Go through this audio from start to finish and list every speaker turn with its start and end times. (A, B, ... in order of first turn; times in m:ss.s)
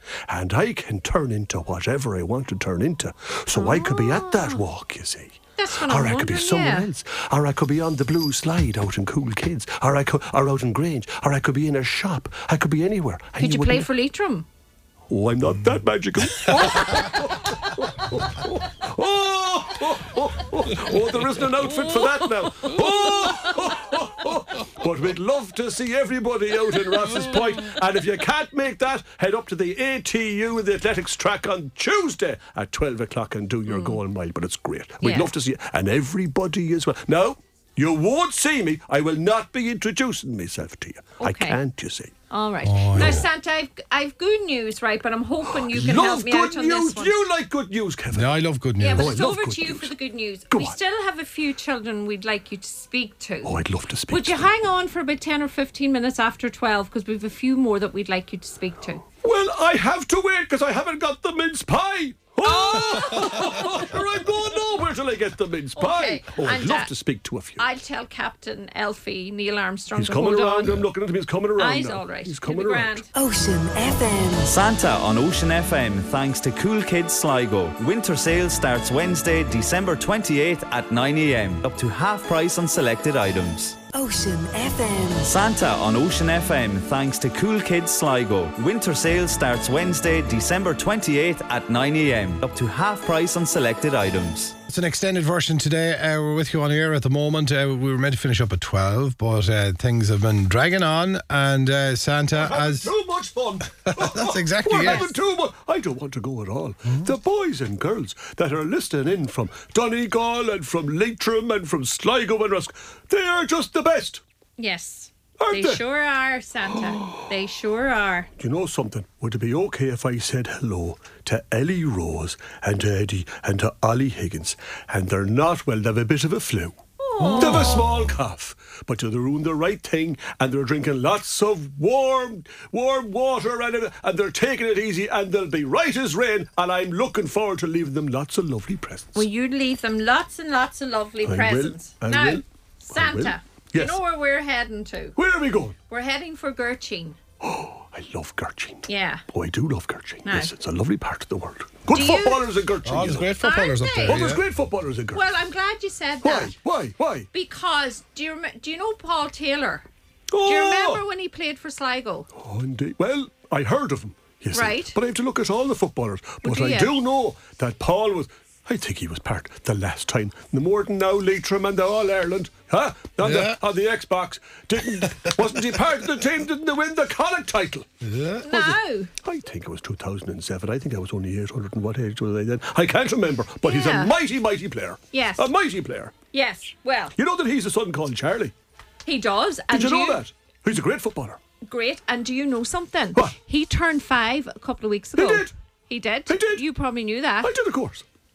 0:00.3-0:13.9 A
0:03.5-0:04.6 B
0:05.6-0:06.9 B
0:13.4-0:14.4 B
0:15.1-0:42.1 A
0:16.2-0:17.1 C
0:22.6-0:23.7 B
0:33.7-0:34.0 B
0:35.0-0:35.3 B
0:41.2-0:41.6 B
0:42.3-0:47.1 B
0:42.6-0:43.3 C
0:42.9-0:43.2 A
0:45.5-0:48.4 A
0:48.1-0:49.1 C
0:48.8-0:53.6 B
0:48.9-0:49.9 A
0:50.5-0:50.8 A
0:53.4-0:54.5 A
0:54.1-0:59.0 B
0:59.2-1:07.6 A
1:02.4-1:03.9 B
1:05.8-1:06.9 B
1:07.6-1:10.8 B
1:09.9-1:13.0 A
1:11.6-1:13.1 B
1:13.1-1:14.6 D
1:14.5-1:23.8 E
1:23.9-1:25.4 D
1:25.2-1:34.6 E
1:34.7-1:42.9 C
1:42.4-1:54.2 A
1:43.8-1:45.1 C
1:44.7-1:45.1 B
1:46.9-1:47.1 C
1:54.6-1:58.3 B
1:55.4-1:55.8 A
1:58.4-2:06.8 A
2:07.0-2:07.8 B
2:07.2-2:08.1 C
2:07.4-2:19.3 A
2:19.1-2:25.2 B
2:21.2-2:24.0 A
2:25.2-2:25.8 A
2:25.9-2:27.2 B
2:27.4-2:33.3 A
2:28.9-2:29.2 B
2:30.2-2:30.5 B
2:31.9-2:32.5 B
2:32.8-2:34.4 C
2:33.4-2:34.2 B
2:34.0-2:35.2 A
2:35.1-2:36.6 B
2:36.2-2:37.3 A
2:37.3-2:39.9 B
2:40.3-2:41.0 A
2:40.4-2:42.3 B
2:42.3-2:57.9 A
2:44.5-2:45.0 B
2:46.4-2:47.0 B
2:53.2-2:53.6 C
2:54.9-2:56.0 C
2:58.0-2:58.4 C
2:58.4-2:59.1 B
2:58.5-3:06.1 A
3:03.6-3:04.1 B
3:05.1-3:05.5 B
3:06.3-3:07.2 B
3:07.2-3:08.5 A
3:09.0-3:10.2 B
3:09.7-3:11.4 A
3:11.6-3:17.5 B
3:15.2-3:15.5 A
3:16.3-3:16.6 A
3:17.4-3:18.0 A